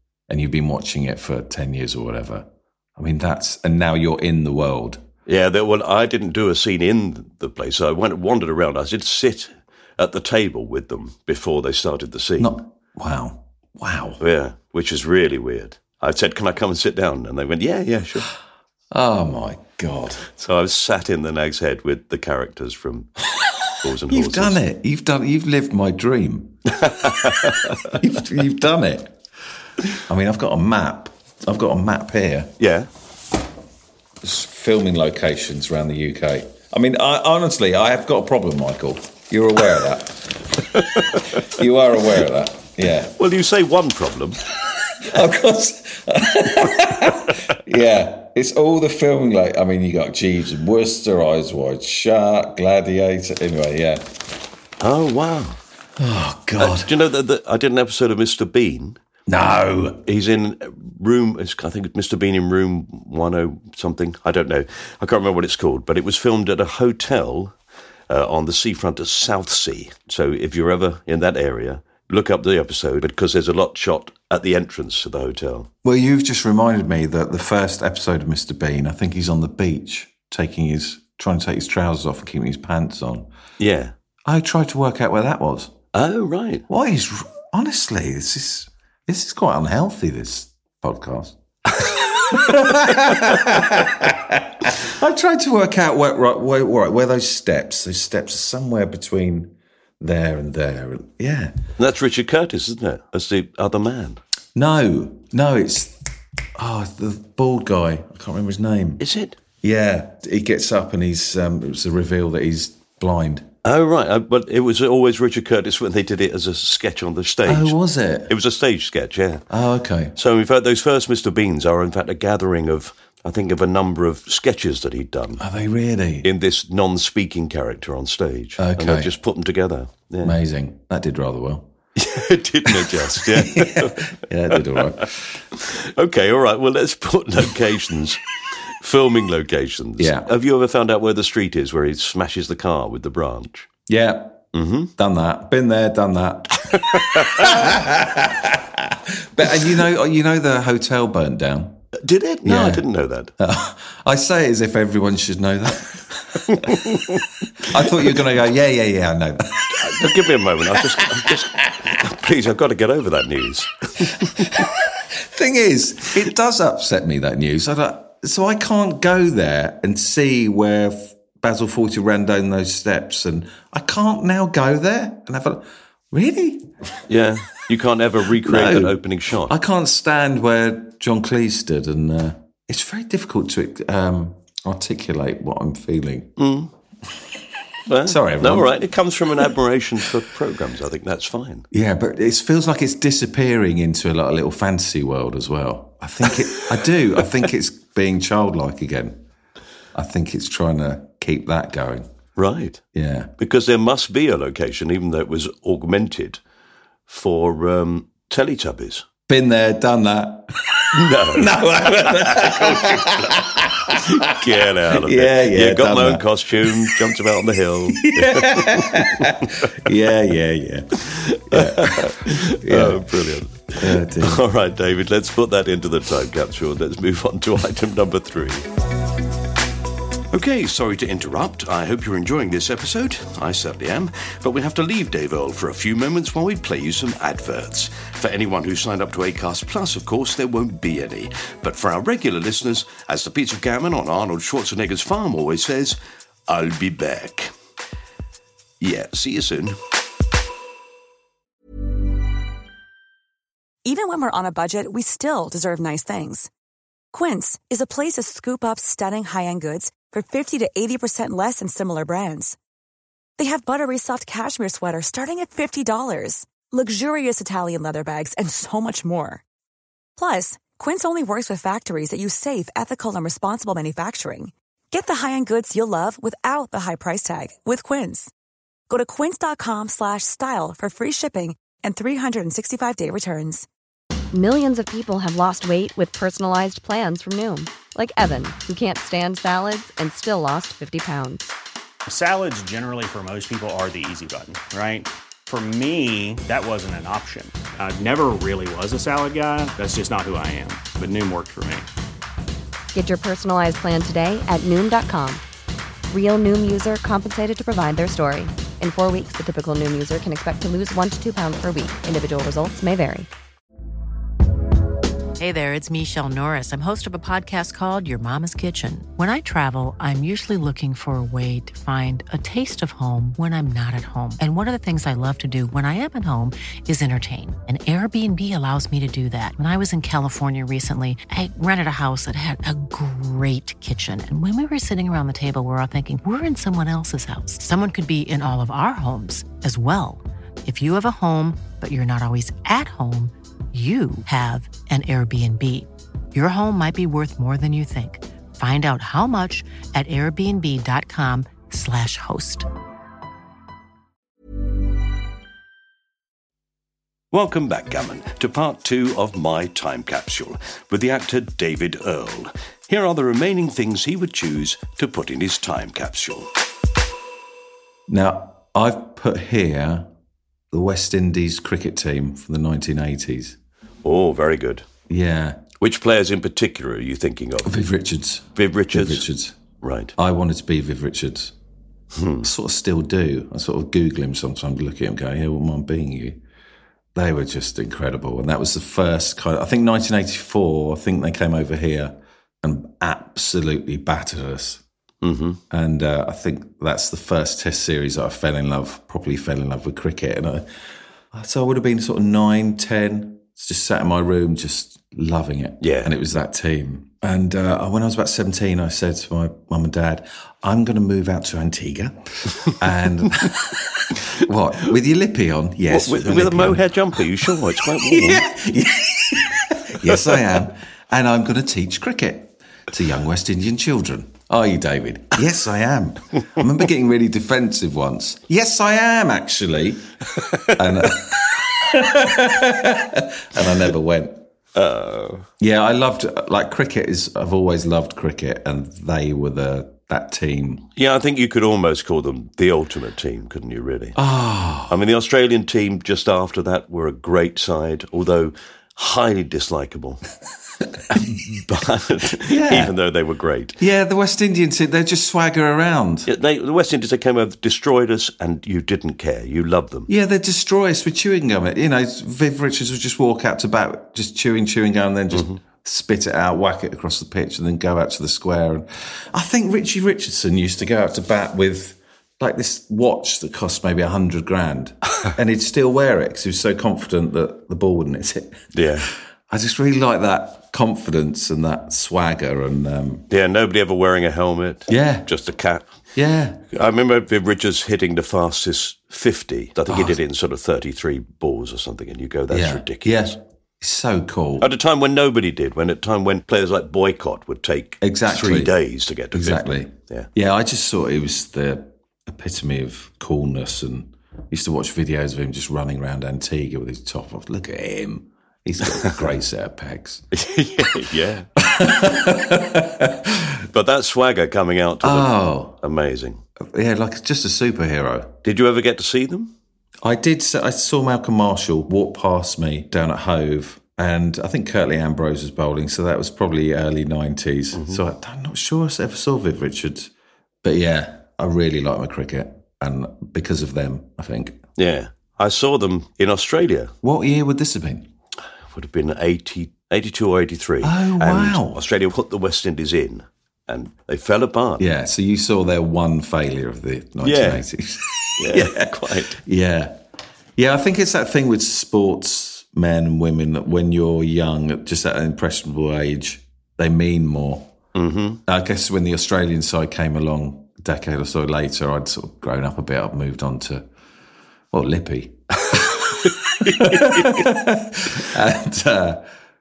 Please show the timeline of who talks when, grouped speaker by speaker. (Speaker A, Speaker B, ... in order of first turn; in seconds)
Speaker A: 0.3-5.0, 12.4-14.2, 18.9-20.2, 24.1-26.7, 27.9-29.1, 30.1-32.5, 34.2-40.4, 41.2-43.1, 45.0-54.1, 56.0-56.9, 59.3-60.0, 75.8-83.3, 84.2-85.8, 86.7-101.6, 104.5-106.0, 106.6-109.0, 109.6-113.5, 117.5-118.3, 119.5-120.2, 125.4-126.3, 128.6-129.1, 130.2-131.7, 132.8-135.1, 140.0-140.3, 143.9-144.4, 145.0-151.8, 152.4-152.9, 153.4-156.8, 157.7-160.2, 160.7-161.9, 165.2-176.7, 178.4-186.3, 188.1-188.7, 191.7-199.2, 199.9-202.1, 202.9-203.3, 209.3-214.3, 214.9-217.0, 217.9-224.4, 368.1-370.1, 370.7-373.6, 375.1-375.6, 377.6-379.6, 380.2-381.5, 382.4-386.4, 387.1-394.8, 395.7-400.7, 401.3-416.9, 418.0-430.1, 430.8-434.4, 435.6-440.9, 444.2-444.9, 452.4-452.9, 453.8-456.3, 460.1-478.6, 479.5-483.3, 484.9-485.3, 486.1-486.6, 489.9-490.2, 492.5-494.7, 498.0-498.7, 499.3-510.2, 511.6-513.6, 515.0-515.8, 516.6-518.4, 520.0-530.1, 530.6-534.6, 537.0-538.1, 540.8-541.8, 544.8-550.0, 550.6-557.7, 558.5-563.9, 564.7-569.3
Speaker B: 5.3-12.6, 14.2-18.3, 20.3-23.2, 23.8-24.6, 26.7-27.9, 32.6-32.9, 41.0-41.3, 43.2-44.4, 54.8-55.6, 56.6-59.0, 60.1-67.5, 68.1-75.7, 83.6-83.9, 85.9-86.6, 91.8-92.4, 101.8-104.2, 109.0-109.4, 113.7-117.8, 118.3-119.4, 120.2-125.4, 126.2-130.4, 132.0-135.0, 135.6-138.3, 138.8-143.7, 144.5-144.9, 146.6-147.8, 152.0-153.3, 156.5-157.4, 159.7-164.6, 177.1-179.5, 186.4-186.7, 187.9-191.7, 202.4-202.8, 203.4-206.4, 207.1-209.1, 210.9-213.3, 213.9-219.8, 221.1-228.7, 230.3-246.0, 246.5-247.5, 248.8-249.8, 357.3-366.5, 374.0-374.9, 375.8-377.9, 378.6-379.2, 379.8-380.1, 382.1-382.5, 395.2-395.6, 405.8-406.1, 415.9-418.5, 430.5-431.1, 434.8-435.5, 441.0-444.2, 444.9-450.2, 451.1-453.8, 456.3-460.1, 465.3-465.6, 478.7-479.1, 483.3-485.9, 486.7-493.4, 494.6-500.3, 508.9-509.3, 510.3-511.5, 513.7-516.4, 518.5-519.5, 527.7-528.0, 534.8-536.9, 538.7-544.9, 547.2-547.6, 548.4-549.4, 558.0-558.4, 565.7-567.4
Speaker C: 253.8-256.5, 257.1-262.6, 263.4-269.4, 270.2-278.3, 278.9-283.7
Speaker D: 284.3-291.5, 302.9-305.4, 306.1-313.3
Speaker E: 292.1-301.9
Speaker F: 315.4-352.7